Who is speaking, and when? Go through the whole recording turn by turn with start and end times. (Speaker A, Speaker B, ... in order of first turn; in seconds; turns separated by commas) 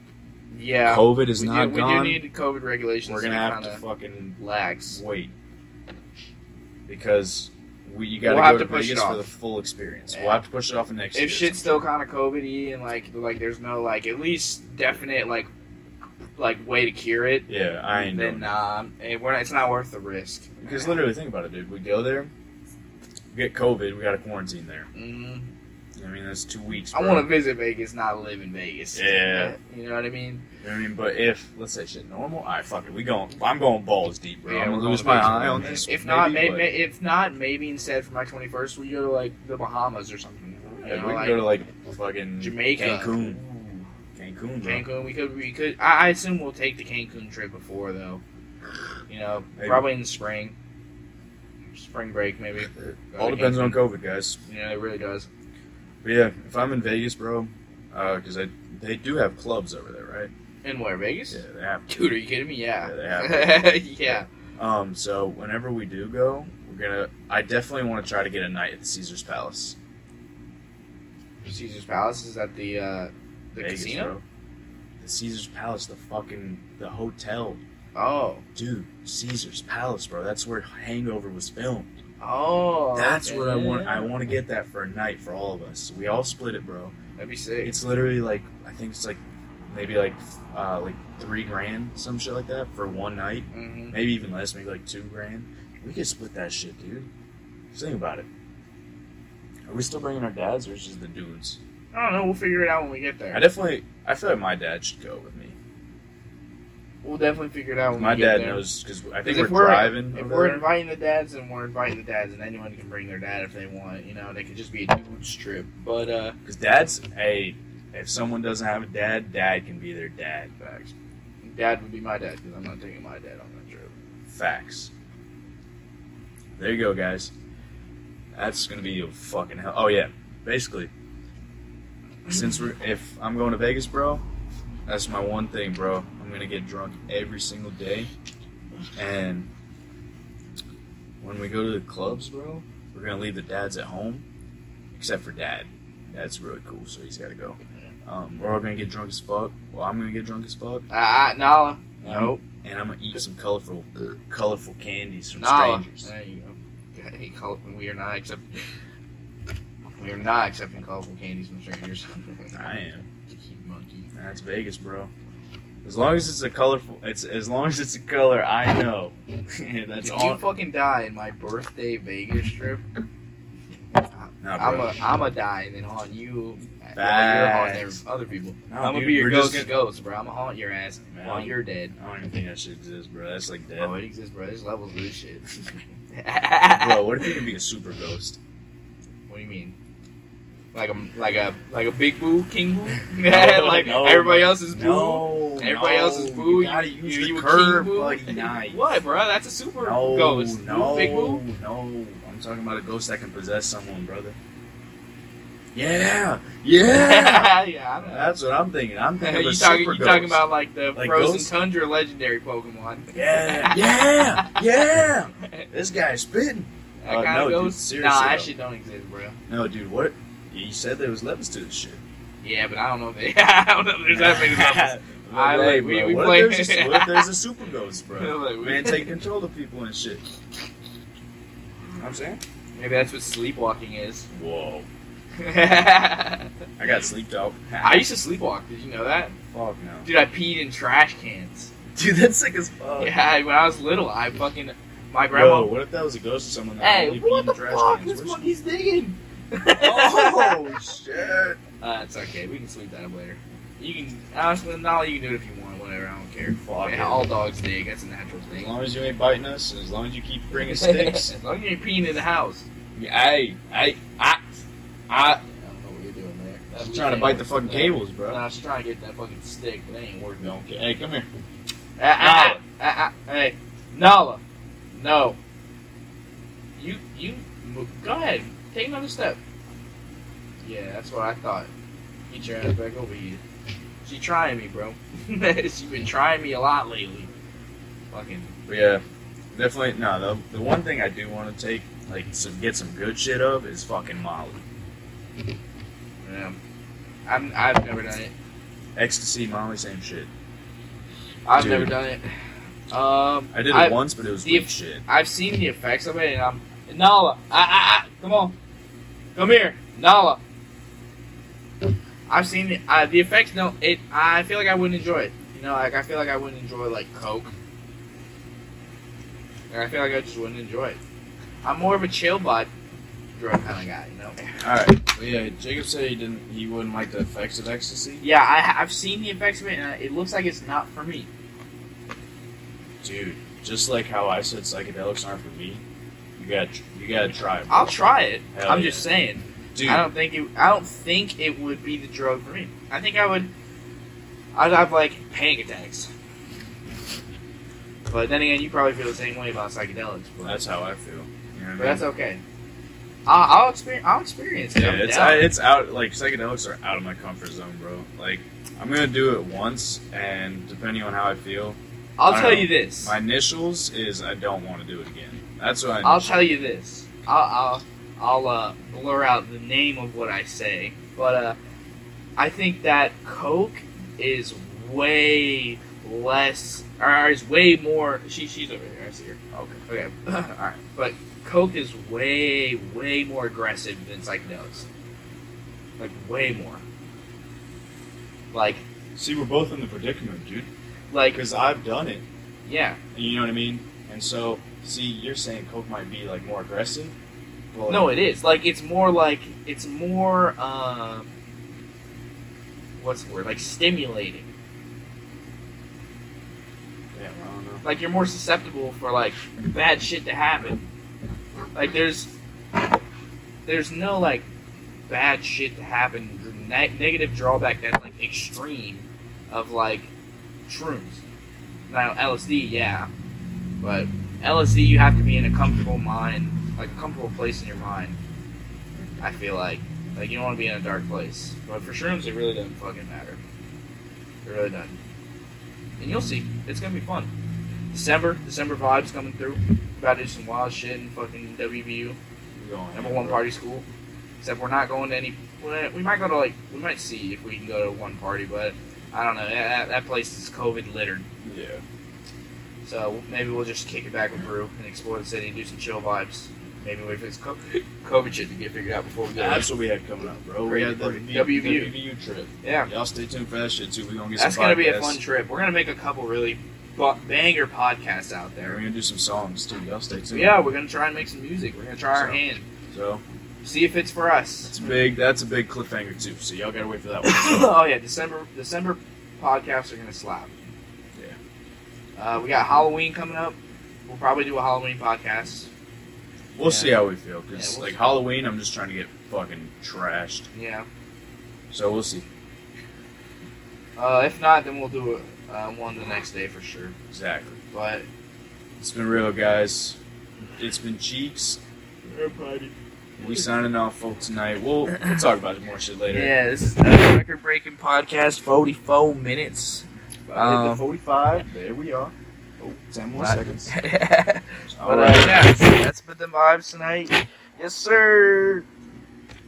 Speaker A: 0.5-3.8, Speaker B: 0.8-2.2, Speaker B: 3.0-5.3, Speaker A: 4.4-5.0, Speaker B: 6.9-11.9, Speaker A: 8.2-9.2, Speaker A: 10.1-10.4, Speaker A: 11.1-15.5, Speaker A: 16.4-21.0, Speaker B: 17.5-18.5, Speaker B: 20.6-22.3, Speaker B: 23.3-24.9, Speaker A: 24.9-25.5, Speaker B: 25.9-27.3, Speaker A: 26.9-30.4, Speaker B: 28.9-29.5, Speaker B: 30.6-36.8, Speaker A: 34.5-41.4, Speaker B: 40.8-43.4, Speaker A: 42.4-43.9, Speaker B: 44.1-44.8, Speaker A: 44.6-48.2, Speaker A: 49.1-50.5, Speaker B: 49.5-49.9, Speaker A: 51.7-53.8, Speaker B: 52.7-54.4, Speaker A: 54.5-55.3, Speaker B: 56.0-60.3, Speaker A: 60.6-64.3, Speaker B: 61.3-61.9, Speaker B: 62.8-69.8, Speaker A: 71.4-74.1, Speaker B: 73.6-74.2, Speaker B: 75.0-77.6, Speaker A: 77.9-78.4, Speaker B: 78.5-81.9, Speaker A: 82.2-84.1, Speaker B: 82.9-87.0, Speaker A: 87.2-87.7, Speaker B: 87.6-97.1, Speaker A: 93.5-94.0, Speaker B: 97.7-98.3, Speaker B: 99.7-101.6, Speaker A: 101.9-103.4, Speaker B: 103.3-105.6, Speaker A: 107.0-108.6, Speaker B: 107.9-110.7, Speaker A: 109.2-116.4, Speaker B: 116.4-120.9, Speaker A: 121.4-123.9, Speaker B: 124.3-124.9, Speaker B: 126.5-127.3, Speaker B: 128.3-130.9, Speaker B: 132.3-134.2, Speaker B: 134.8-138.1, Speaker B: 138.9-139.5, Speaker B: 141.2-144.2, Speaker B: 144.9-150.8, Speaker A: 150.9-152.4, Speaker B: 152.0-156.1, Speaker A: 155.3-158.5, Speaker A: 159.9-162.6, Speaker B: 162.5-163.1, Speaker A: 163.2-164.1, Speaker B: 164.1-165.1, Speaker B: 165.8-170.4, Speaker A: 170.0-172.8, Speaker A: 174.2-181.9, Speaker B: 174.4-174.9, Speaker B: 176.9-178.0, Speaker B: 178.7-179.7, Speaker B: 181.2-184.0, Speaker A: 183.8-185.4, Speaker A: 186.1-187.3, Speaker B: 186.7-188.4, Speaker A: 189.3-189.8, Speaker A: 190.7-201.4, Speaker B: 193.2-199.0, Speaker B: 199.8-204.4, Speaker B: 205.7-211.5, Speaker A: 206.9-208.4, Speaker A: 209.2-214.6, Speaker B: 213.1-218.5, Speaker A: 215.3-215.7, Speaker A: 217.0-219.4, Speaker B: 219.5-222.0, Speaker A: 222.4-227.3, Speaker B: 224.1-230.2, Speaker A: 228.2-229.2, Speaker B: 231.9-232.4, Speaker A: 232.7-234.3, Speaker B: 234.3-234.9, Speaker A: 235.4-236.5, Speaker B: 236.8-238.1, Speaker A: 237.8-239.3, Speaker B: 239.5-240.1, Speaker A: 240.1-241.7, Speaker B: 241.9-243.2, Speaker A: 243.0-245.7, Speaker B: 245.3-248.5, Speaker A: 246.8-250.7, Speaker B: 249.7-251.6, Speaker A: 251.8-258.7, Speaker B: 256.4-257.3, Speaker B: 258.5-261.3, Speaker A: 260.5-262.6, Speaker B: 262.9-265.4, Speaker A: 265.4-270.6, Speaker B: 266.7-268.4, Speaker B: 270.4-271.3, Speaker A: 272.0-275.4, Speaker B: 272.2-272.6, Speaker A: 276.8-279.4, Speaker A: 280.6-281.7, Speaker A: 282.3-283.4, Speaker A: 284.0-287.3, Speaker A: 288.1-288.6, Speaker B: 288.6-294.6, Speaker A: 296.2-296.6, Speaker A: 297.2-298.3, Speaker B: 298.9-300.3, Speaker A: 301.4-302.3, Speaker B: 301.5-301.9, Speaker A: 302.9-308.6, Speaker B: 303.5-305.0, Speaker A: 309.4-310.4, Speaker A: 312.3-317.5, Speaker A: 319.7-321.0, Speaker A: 321.6-322.7, Speaker A: 323.3-324.4, Speaker B: 324.6-328.2, Speaker A: 328.2-331.3, Speaker B: 333.0-335.8, Speaker B: 336.4-337.9, Speaker A: 337.7-343.5, Speaker B: 338.5-339.1, Speaker B: 339.7-340.1, Speaker A: 344.5-346.1, Speaker A: 348.1-350.6, Speaker B: 350.4-352.1, Speaker A: 351.8-352.4, Speaker A: 353.2-355.5, Speaker B: 354.7-366.4, Speaker A: 362.2-363.1, Speaker A: 366.0-371.6, Speaker A: 372.4-384.9, Speaker B: 379.5-379.8, Speaker A: 386.0-386.8, Speaker A: 388.5-388.8, Speaker B: 389.1-390.7, Speaker A: 391.1-391.4, Speaker B: 391.3-392.2, Speaker A: 392.6-393.0, Speaker B: 393.1-397.1, Speaker B: 397.7-398.2, Speaker A: 397.9-401.3, Speaker A: 403.0-404.5, Speaker B: 407.1-407.8, Speaker A: 407.8-410.8, Speaker A: 411.7-412.3, Speaker A: 413.6-414.4, Speaker A: 415.1-420.1, Speaker A: 420.7-421.2, Speaker A: 421.9-423.1, Speaker A: 423.8-428.2, Speaker A: 429.2-433.4, Speaker A: 434.4-435.0, Speaker A: 436.0-437.3, Speaker A: 437.9-442.2, Speaker B: 442.6-443.5, Speaker A: 442.9-443.9, Speaker A: 444.4-451.2, Speaker B: 451.4-451.8, Speaker A: 452.8-459.7, Speaker B: 459.3-465.2, Speaker A: 460.6-461.9, Speaker A: 462.6-462.9, Speaker A: 464.4-468.8, Speaker B: 468.6-470.6, Speaker A: 470.3-472.7, Speaker B: 472.1-473.2, Speaker A: 473.6-474.7, Speaker B: 474.6-477.8, Speaker A: 477.2-480.6, Speaker A: 482.1-485.7, Speaker B: 486.5-490.5, Speaker A: 486.6-487.0, Speaker A: 487.5-488.0, Speaker A: 490.5-490.9, Speaker B: 491.7-492.2, Speaker A: 494.0-496.9, Speaker B: 497.1-497.6, Speaker A: 497.7-498.1, Speaker B: 498.8-500.0, Speaker B: 500.6-506.3, Speaker A: 506.1-510.9, Speaker B: 510.3-512.1, Speaker B: 512.9-513.7, Speaker A: 513.1-518.6, Speaker B: 514.7-515.6